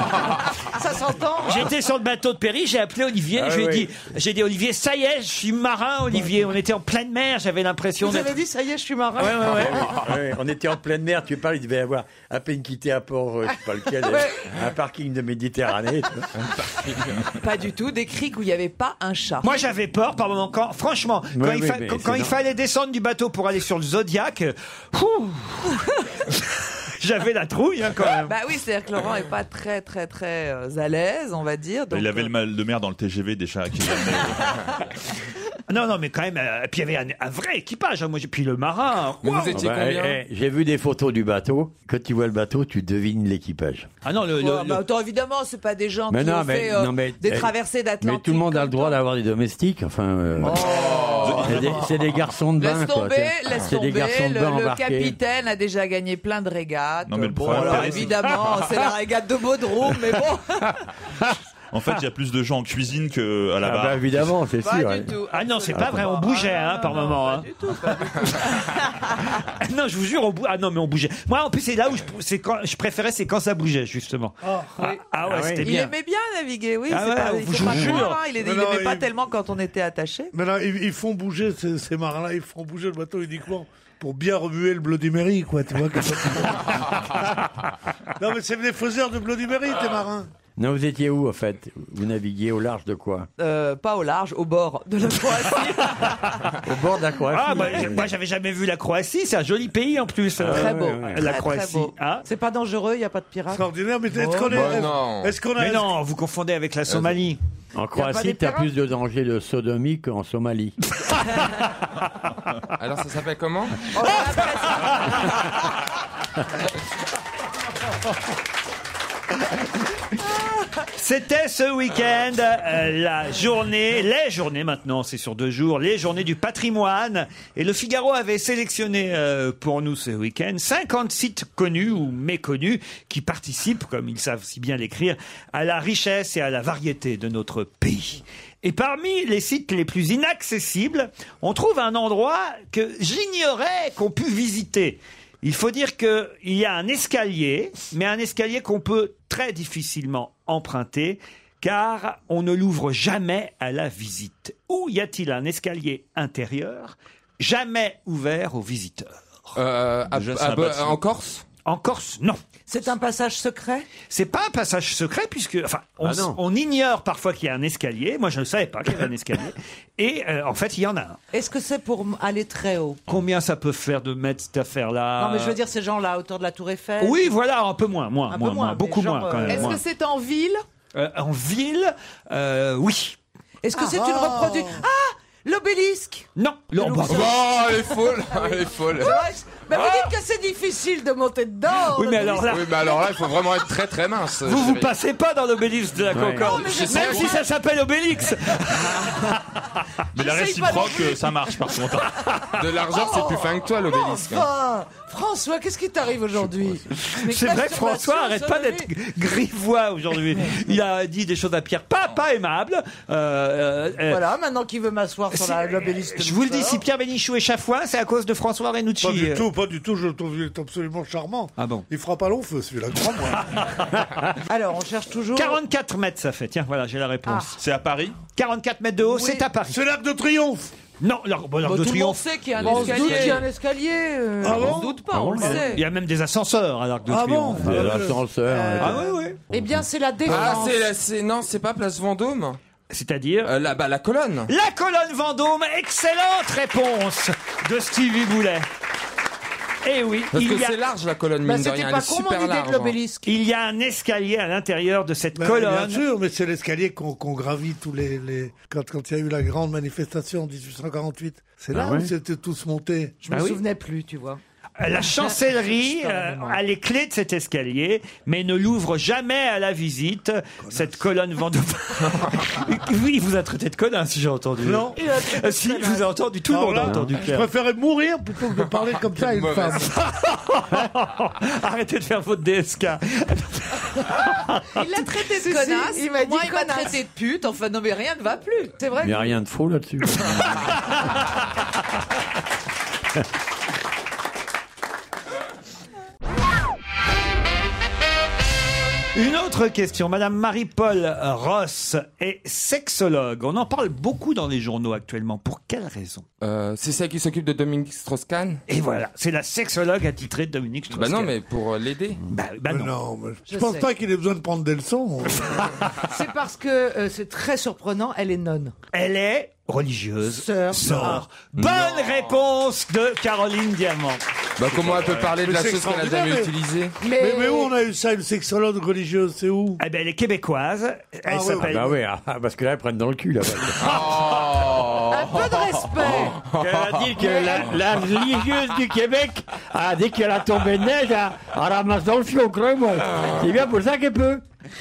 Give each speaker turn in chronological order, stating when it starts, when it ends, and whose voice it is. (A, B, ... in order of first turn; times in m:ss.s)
0:00.7-0:01.7 A
0:01.4-0:08.4 B
0:03.3-0:03.9 C
0:08.0-0:10.0 A
0:09.2-0:09.8 B
0:09.5-0:16.3 C
0:14.0-0:14.5 A
0:16.6-0:17.2 D
0:17.4-0:19.6 E
0:19.4-0:25.8 B
0:21.3-0:22.4 C
0:27.0-0:28.4 B
0:28.3-0:32.3 E
0:31.9-0:34.6 F
0:35.7-0:39.6 B
0:39.2-0:40.2 D
0:39.5-0:43.9 C
0:44.0-0:44.8 B
0:44.4-0:49.0 E
0:46.1-0:55.2 C
0:50.4-1:00.8 E
0:50.6-0:51.6 D
0:51.1-0:51.7 F
0:57.0-0:58.6 F
0:57.4-0:58.0 C
1:01.7-1:04.3 F
1:03.6-1:06.3 C
1:04.6-1:09.1 E
1:05.3-1:07.5 B
1:08.2-1:08.6 B
1:09.3-1:15.8 B
1:14.4-1:14.7 G
1:15.2-1:15.9 C
1:15.6-1:20.3 E
1:16.9-1:18.2 B
1:17.7-1:18.1 C
1:18.4-1:19.1 G
1:20.3-1:27.2 G
1:28.2-1:30.3 G
1:30.6-1:33.3 C
1:33.4-1:36.2 E
1:36.6-1:38.1 C
1:37.3-1:42.2 B
1:40.4-1:41.3 C
1:40.5-1:41.9 E
1:42.3-1:44.8 A
1:43.5-1:46.0 G
1:44.5-1:45.3 D
1:45.6-1:47.4 B
1:47.8-1:50.8 C
1:47.9-1:48.7 A
1:52.8-1:54.0 D
1:54.0-1:55.4 E
2:00.9-2:39.1 B
2:39.6-2:41.4 D
2:40.1-2:41.0 F
2:41.6-2:42.4 B
2:42.7-2:43.9 A
2:44.1-2:51.2 B
2:46.0-2:46.4 C
2:51.3-2:53.0 A
2:53.1-2:55.6 B
2:55.2-2:57.3 A
2:57.0-2:59.8 B
2:58.3-2:59.8 A
2:59.5-3:00.6 E
3:00.9-3:03.2 B
3:03.6-3:13.3 A
3:03.8-3:04.2 E
3:06.4-3:07.4 B
3:07.1-3:09.2 D
3:11.9-3:12.8 B
3:12.4-3:14.9 D
3:14.4-3:19.6 B
3:16.1-3:16.7 C
3:16.4-3:17.4 A
3:16.6-3:17.4 D
3:20.1-3:22.4 F
3:20.2-3:21.8 A
3:22.6-3:24.5 D
3:22.9-3:28.9 A
3:27.1-3:34.2 B
3:34.1-3:36.8 A
3:35.3-3:39.5 B
3:39.0-3:43.7 G
3:41.6-3:41.8 B
3:44.5-3:45.6 A
3:45.4-3:47.6 B
3:47.3-3:47.5 A
3:47.6-3:48.2 F
3:48.4-3:49.8 B
3:49.1-3:49.4 A
3:49.6-3:50.7 G
3:51.0-3:53.3 B
3:51.6-3:53.5 E
3:52.6-3:54.8 A
3:54.4-3:55.0 G
3:54.4-3:55.8 E
3:55.1-3:55.8 C
3:55.4-3:58.0 B
3:57.1-3:58.2 G
3:57.5-3:59.0 C
3:58.5-4:00.8 A
3:58.8-3:59.4 B
4:00.3-4:02.6 D
4:02.9-4:03.5 B
4:03.4-4:04.5 D
4:04.5-4:08.7 B
4:09.8-4:10.8 B
4:10.3-4:13.0 D
4:11.4-4:13.3 A
4:13.2-4:16.0 B
4:15.4-4:23.2 G
4:21.7-4:22.1 C
4:23.2-4:24.4 A
4:23.3-4:23.6 B
4:24.8-4:37.5 B
4:25.2-4:26.6 A
4:34.6-4:35.0 G
4:35.0-4:36.1 A
4:36.5-4:39.9 G
4:36.8-4:37.1 C
4:39.2-4:39.9 D
4:40.0-4:44.6 B
4:44.8-4:48.8 E
4:45.0-4:47.0 A
4:48.8-4:49.3 A
4:49.0-4:50.8 C
4:59.2-5:06.2 B
5:06.4-5:08.6 D
5:08.7-5:11.4 B
5:10.9-5:12.2 D
5:12.3-5:12.9 B
5:12.7-5:15.7 G
5:13.5-5:13.9 A
5:16.0-5:18.7 A
5:18.9-5:24.2 B
5:20.2-5:21.2 A
5:20.8-5:21.2 G
5:21.6-5:22.4 D
5:24.6-5:27.0 D
5:25.3-5:26.5 G
5:27.0-5:27.7 A
5:27.2-5:29.8 G
5:29.8-5:32.0 B
5:31.3-5:32.0 G
5:31.6-5:34.0 C
5:33.8-5:37.1 D
5:35.1-5:36.4 A
5:36.5-5:44.4 C
5:37.2-5:37.7 A